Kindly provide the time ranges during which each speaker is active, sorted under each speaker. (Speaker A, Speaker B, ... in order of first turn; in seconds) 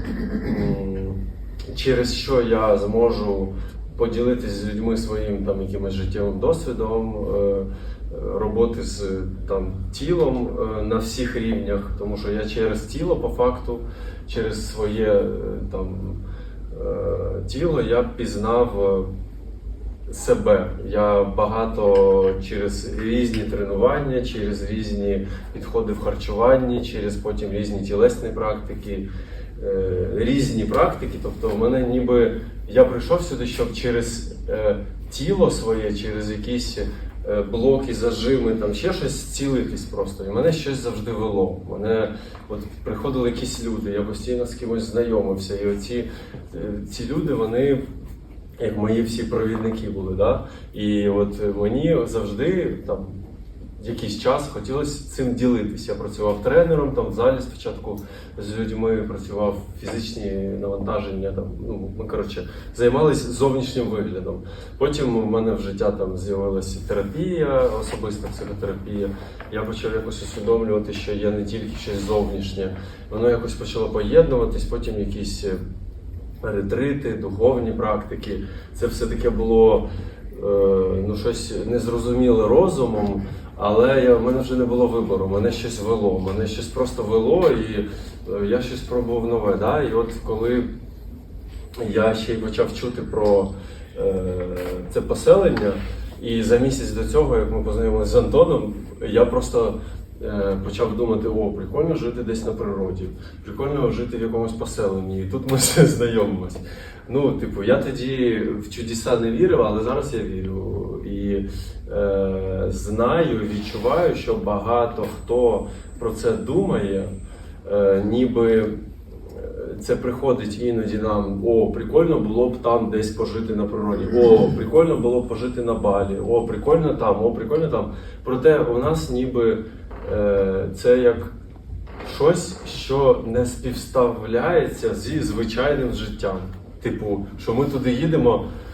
Speaker A: 0.4-19.1, 20.1-29.1, 29.6-47.8, 48.6-53.2, 53.8-75.6, 76.4-90.7, 91.8-117.1, 117.6-131.3, 132.0-138.4